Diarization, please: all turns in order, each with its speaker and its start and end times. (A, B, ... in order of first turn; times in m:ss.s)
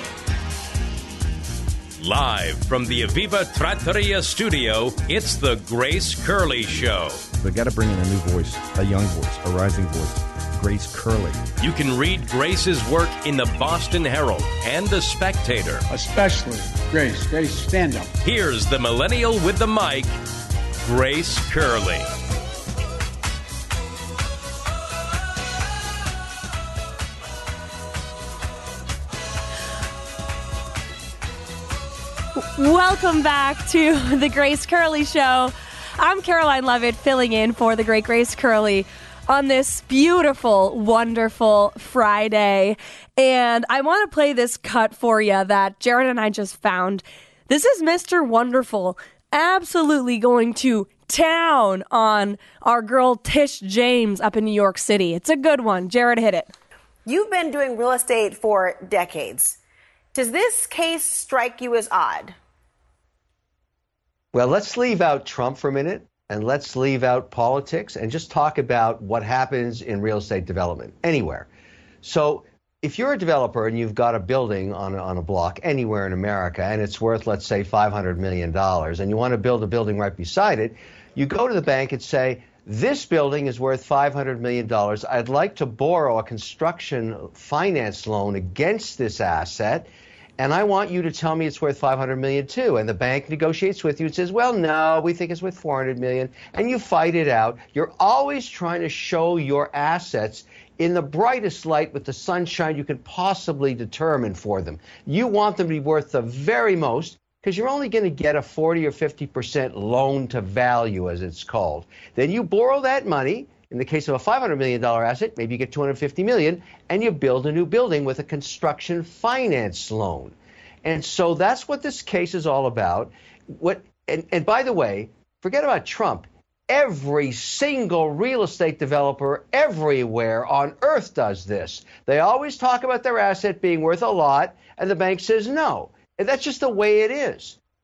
0:02.0-0:07.2 A
0:07.4-0:11.4 B
0:11.6-0:15.9 A
0:15.9-0:18.1 C
0:18.2-0:20.1 A
0:20.8-0:22.0 A
0:32.4-0:56.5 D
0:57.0-0:59.6 E
1:00.1-1:02.4 E
1:04.3-1:11.5 F
1:12.0-2:17.6 F